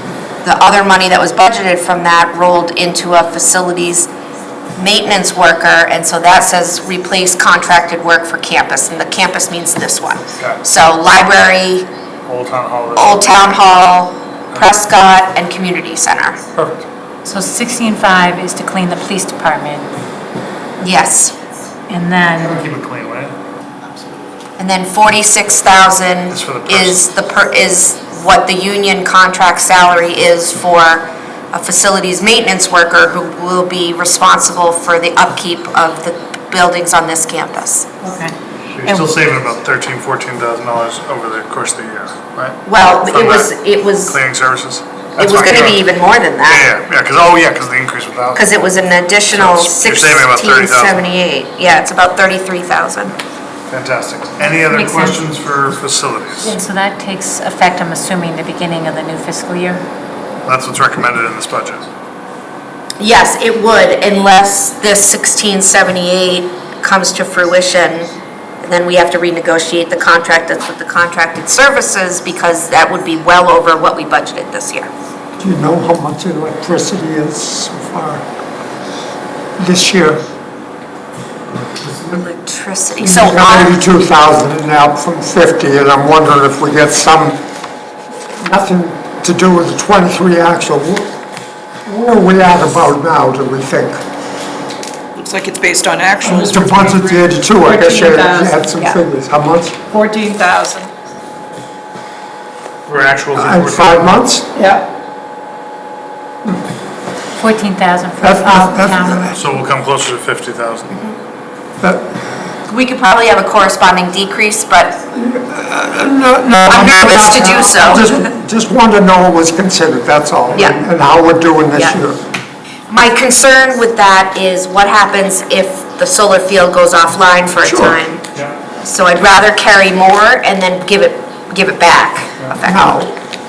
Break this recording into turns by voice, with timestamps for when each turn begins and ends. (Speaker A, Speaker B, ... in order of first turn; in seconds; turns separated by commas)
Speaker A: 0.4-4.1, Speaker A: 4.8-11.9, Speaker B: 12.3-13.4, Speaker A: 13.0-16.4, Speaker B: 16.5-16.9, Speaker C: 17.2-19.9, Speaker A: 20.8-21.4, Speaker C: 21.9-22.6, Speaker B: 22.4-23.4, Speaker A: 24.6-37.9, Speaker B: 26.3-27.0, Speaker C: 38.0-39.1, Speaker B: 38.7-43.5, Speaker A: 42.6-44.2, Speaker B: 44.1-45.8, Speaker A: 45.2-46.6, Speaker B: 46.5-48.5, Speaker A: 48.4-53.2, Speaker B: 49.3-51.0, Speaker B: 53.7-56.5, Speaker C: 54.5-55.2, Speaker C: 56.4-59.9, Speaker B: 60.5-61.8, Speaker A: 63.0-74.9, Speaker D: 75.4-78.2, Speaker D: 79.6-80.2, Speaker D: 81.8-82.2, Speaker A: 82.1-83.8, Speaker D: 83.0-87.4, Speaker D: 88.4-91.1, Speaker D: 91.9-94.0, Speaker E: 95.2-97.2, Speaker D: 96.2-99.8, Speaker C: 97.6-99.0, Speaker E: 99.9-100.9, Speaker B: 102.9-104.2, Speaker D: 103.3-104.5, Speaker C: 107.4-109.3, Speaker D: 108.2-109.4, Speaker B: 109.3-111.0, Speaker D: 111.8-112.2, Speaker A: 112.7-115.0, Speaker D: 115.1-122.2, Speaker A: 116.7-118.2, Speaker A: 120.5-120.8, Speaker A: 122.9-128.2, Speaker D: 127.6-128.0, Speaker A: 128.8-132.9, Speaker D: 132.6-133.2